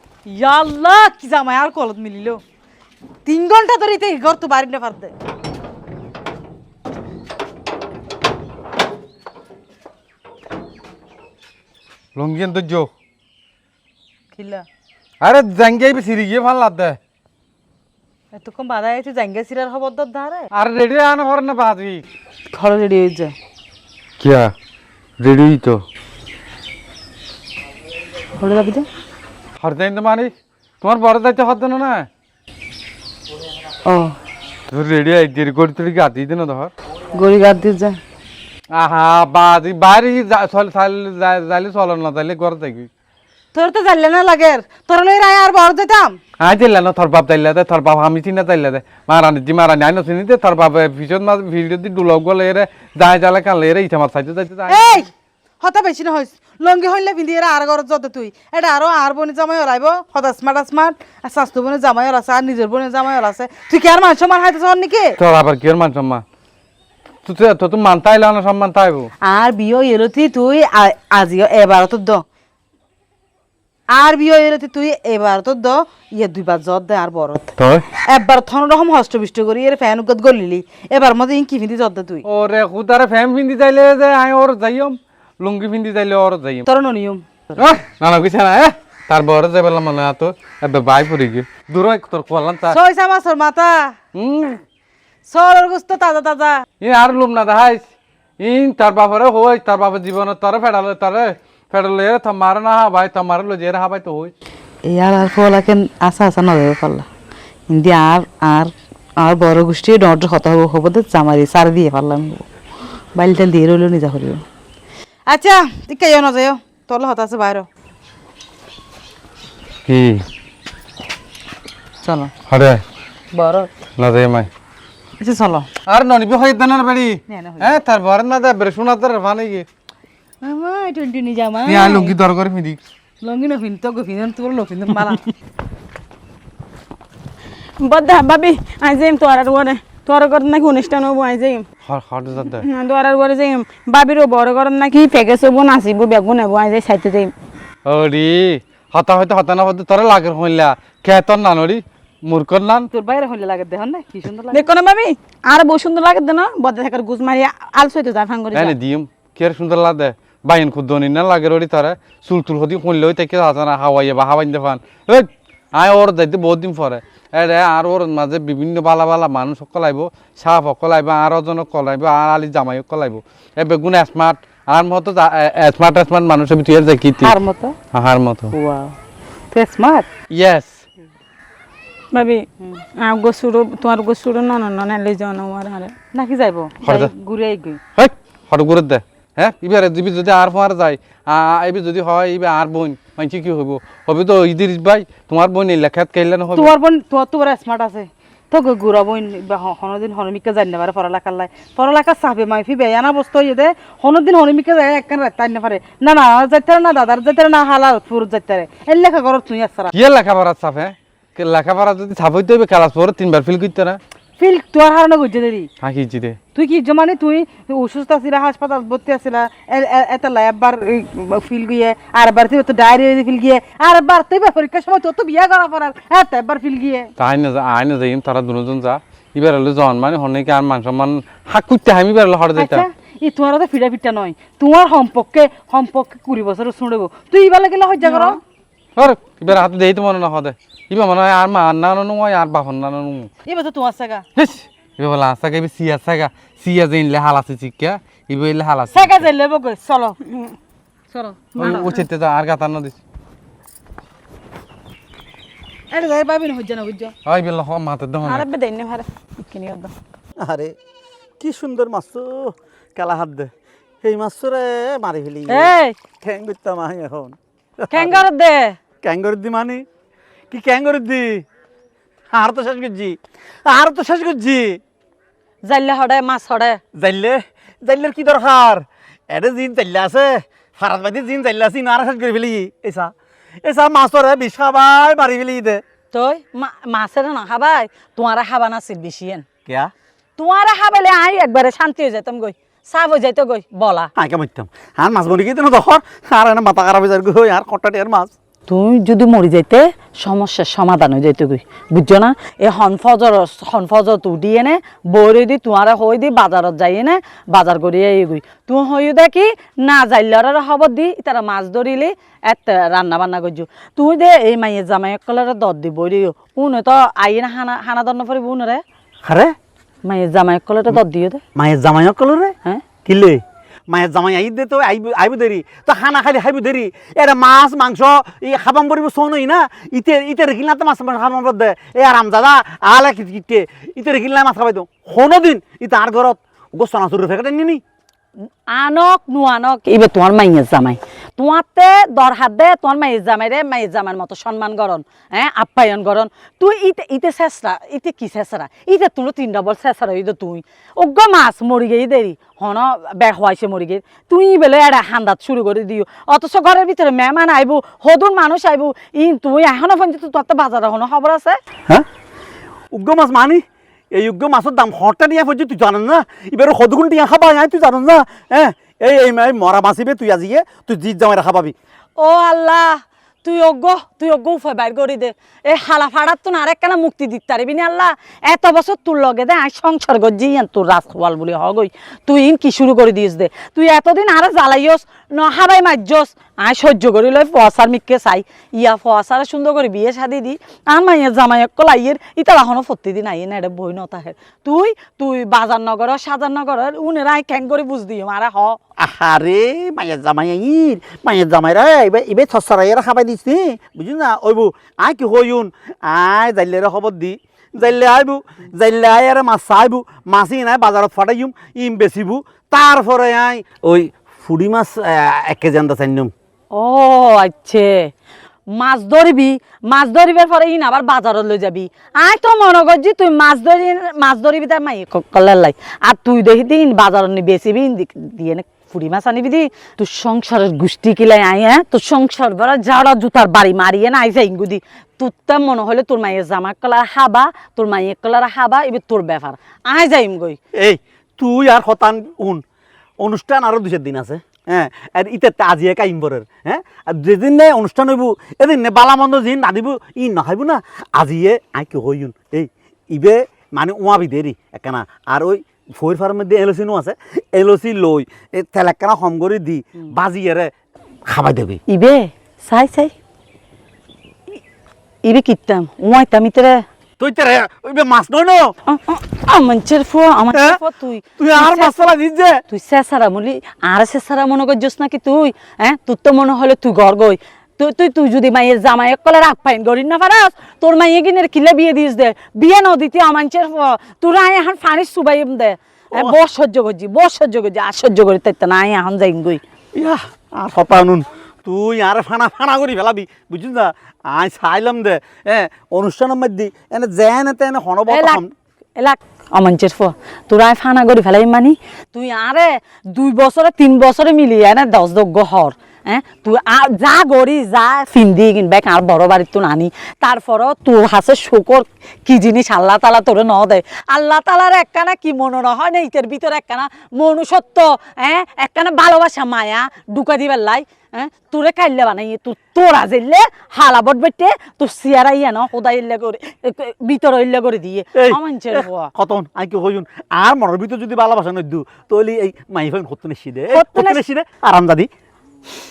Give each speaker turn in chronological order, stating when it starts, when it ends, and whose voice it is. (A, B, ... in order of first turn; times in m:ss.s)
0:00.3-0:02.4 A
0:03.2-0:05.1 A
0:12.2-0:12.9 B
0:14.3-0:14.6 A
0:15.2-0:17.0 B
0:18.3-0:20.5 A
0:20.5-0:22.0 B
0:22.5-0:23.3 A
0:24.2-0:24.5 B
0:25.2-0:25.8 B
0:28.4-0:28.9 A
0:29.6-0:30.3 B
0:30.8-0:32.1 B
0:33.9-0:34.2 A
0:34.7-0:36.7 B
0:37.1-0:38.0 A
0:38.7-0:42.9 B
0:43.5-0:46.2 A
0:46.4-0:55.1 B
0:54.7-0:55.1 A
0:55.6-1:05.2 A
1:05.2-1:06.2 B
1:07.2-1:09.1 B
1:09.2-1:12.2 A
1:13.9-1:17.5 A
1:17.6-1:17.8 B
1:18.1-1:22.2 A
1:22.3-1:26.7 B
1:26.7-1:27.2 A
1:27.6-1:32.8 B
1:32.7-1:33.9 A
1:34.2-1:34.6 B
1:35.3-1:36.6 A
1:36.8-1:37.9 B
1:38.4-1:44.3 B
1:44.8-1:47.1 A
1:47.7-1:52.5 A
1:53.2-1:54.4 A
1:55.3-1:57.7 A
1:59.9-2:00.2 B
2:02.0-2:02.3 A
2:02.5-2:02.8 B
2:03.3-2:03.7 A
2:04.0-2:04.5 B
2:05.2-2:05.7 A
2:05.9-2:09.7 B
2:07.3-2:07.8 A
2:10.4-2:12.2 A
2:11.7-2:12.8 B
2:13.2-2:15.2 A
2:17.8-2:21.6 C
2:21.8-2:22.7 B
2:22.7-2:27.3 C
2:27.9-2:32.9 B
2:32.9-2:34.6 A
2:34.5-2:38.7 C
2:38.5-2:57.4 B
2:57.2-2:57.8 A
2:57.9-2:58.6 B
2:58.5-2:59.0 A
2:59.5-3:00.1 A
3:00.3-3:00.8 B
3:02.1-3:02.4 C
3:03.0-3:05.9 C
3:06.1-3:07.8 A
3:06.8-3:07.1 B
3:08.0-3:16.7 B
3:16.6-3:29.9 A
3:29.9-3:34.0 B
3:34.4-3:35.7 A
3:35.8-3:36.4 B
3:36.6-3:47.1 A
3:47.2-3:52.8 B
3:52.6-3:58.4 A
3:59.0-4:03.3 B
4:03.5-4:04.2 A
4:04.4-4:09.3 B
4:08.9-4:10.2 A
4:11.1-4:12.0 A
4:11.6-4:13.0 B
4:15.9-4:17.1 A
4:17.3-4:18.5 B
4:18.2-4:19.9 C
4:20.4-4:20.8 D
4:21.4-4:23.5 D
4:24.0-4:28.2 D
4:25.5-4:25.9 E
4:27.9-4:28.8 E
4:29.0-4:29.8 D
4:30.5-4:31.4 D
4:32.3-4:34.8 D
4:35.6-4:36.8 E
4:37.0-4:43.1 D
4:43.6-4:45.8 D
4:46.1-4:49.4 E
4:49.7-4:49.9 D
4:50.4-4:54.1 E
4:54.2-4:58.3 D
4:58.7-5:18.8 E
5:19.2-5:19.5 D
5:20.0-5:21.4 E
5:21.6-5:22.5 D
5:23.0-5:37.8 D
5:38.7-6:01.6 E
6:02.9-6:03.6 D
6:04.1-6:11.8 D
6:12.2-6:38.8 E
6:39.0-6:56.3 D
6:56.7-6:58.1 E
6:58.8-7:20.6 E
7:20.8-7:22.6 D
7:23.2-7:40.7 D
7:41.3-7:41.8 D
7:41.9-7:43.1 E
7:45.2-7:46.8 E
7:47.2-7:48.7 D
7:48.9-7:52.1 E
7:50.5-7:50.8 D
7:51.4-7:52.6 D
7:52.7-8:09.6 E
8:10.0-8:18.5 D
8:18.1-8:18.4 E
8:19.0-8:49.1 E
8:48.2-8:55.1 D
8:53.7-8:54.2 E